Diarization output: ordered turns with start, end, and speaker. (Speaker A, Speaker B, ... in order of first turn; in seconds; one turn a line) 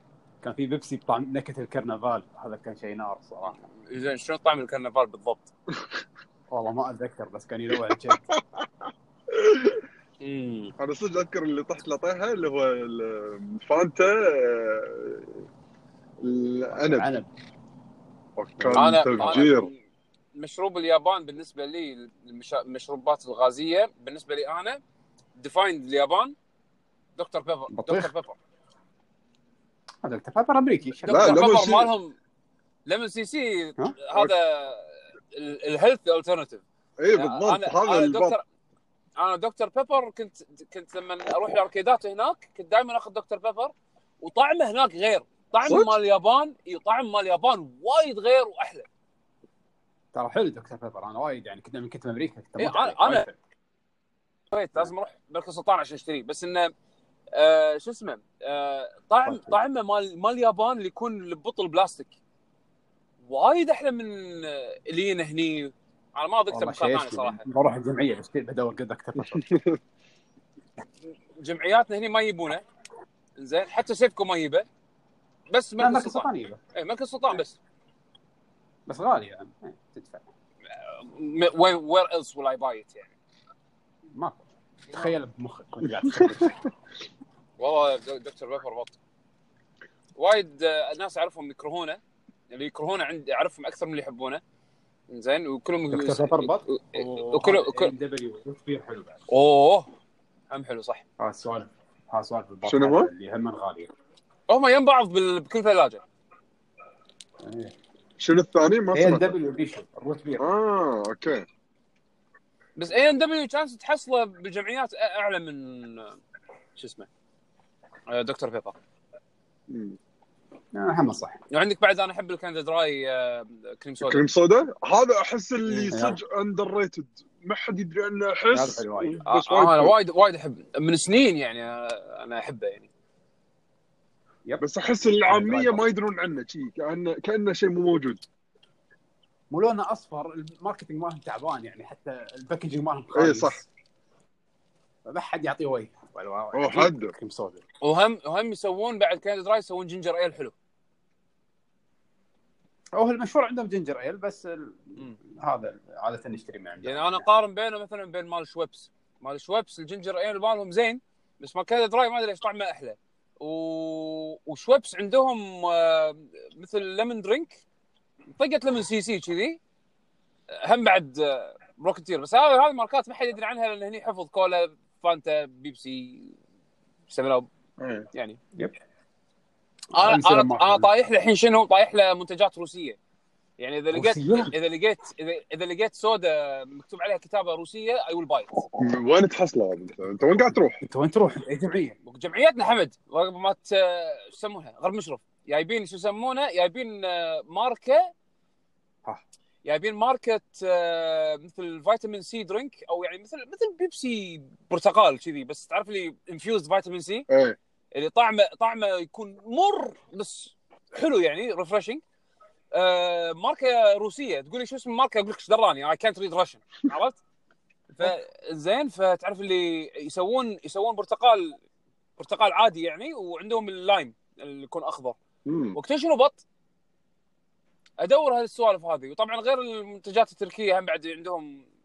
Speaker A: 0.4-3.6
Speaker B: 3.4-5.5
Speaker A: 6.5-8.2
Speaker C: 7.9-8.7
Speaker C: 9.3-9.8
Speaker B: 10.2-10.7
Speaker C: 10.8-15.4
Speaker C: 16.2-17.1
Speaker A: 16.7-17.3
Speaker C: 18.4-19.7
Speaker A: 18.6-19.4
Speaker B: 18.7-19.8
Speaker B: 20.3-24.8
Speaker B: 25.4-26.4
Speaker B: 27.2-28.4
Speaker A: 27.7-28.1
Speaker A: 30.0-31.5
Speaker B: 31.1-32.2
Speaker C: 31.1-31.9
Speaker B: 32.9-38.4
Speaker C: 37.0-38.4
Speaker B: 39.2-48.9
Speaker C: 45.6-46.0
Speaker A: 50.1-53.4
Speaker B: 52.6-53.3
Speaker B: 54.5-56.7
Speaker B: 57.4-62.1
Speaker A: 59.3-59.6
Speaker B: 63.2-67.5
Speaker A: 66.5-69.5
Speaker C: 69.2-69.8
Speaker B: 71.4-72.6
Speaker B: 73.4-74.7
Speaker B: 75.5-77.6
Speaker A: 75.8-76.6
Speaker A: 78.9-80.3
Speaker B: 80.8-83.1
Speaker A: 84.1-86.7
Speaker C: 86.1-86.5
Speaker B: 87.6-89.0
Speaker B: 90.2-92.0
Speaker B: 92.5-94.4
Speaker B: 95.1-97.9
Speaker A: 95.9-99.2
Speaker B: 99.3-99.9
Speaker B: 100.5-101.0
Speaker A: 101.2-103.9
Speaker C: 102.7-103.1
Speaker B: 104.5-106.0
Speaker A: 107.4-107.7
Speaker C: 108.2-109.3
Speaker A: 108.9-110.4
Speaker C: 110.4-111.5
Speaker B: 112.8-116.2
Speaker B: 116.8-117.1
Speaker B: 118.1-118.8
Speaker C: 119.7-120.0
Speaker A: 120.7-121.4
Speaker B: 121.5-124.2
Speaker C: 124.0-129.9
Speaker A: 125.9-126.2
Speaker A: 128.5-129.2
Speaker B: 129.2-132.9
Speaker C: 134.6-138.2
Speaker A: 135.2-135.8
Speaker A: 139.5-143.7
Speaker C: 143.1-143.6
Speaker A: 145.1-147.6
Speaker C: 146.5-147.1
Speaker B: 147.8-150.5
Speaker A: 152.9-157.2
Speaker B: 156.8-167.6
Speaker B: 168.4-169.6
Speaker B: 170.6-176.4
Speaker B: 177.1-177.5
Speaker C: 177.8-178.1
Speaker B: 178.1-178.4
Speaker B: 179.9-183.0
Speaker A: 180.0-180.9
Speaker B: 183.6-188.7
Speaker A: 183.9-184.5
Speaker C: 188.8-190.8
Speaker A: 190.8-192.0
Speaker B: 192.1-198.1
Speaker B: 199.6-207.3
Speaker C: 207.3-207.6
Speaker B: 207.9-212.0
Speaker B: 212.7-217.2
Speaker B: 217.9-221.6
Speaker B: 222.2-225.2
Speaker C: 225.5-225.8
Speaker B: 225.7-226.4
Speaker B: 228.0-231.7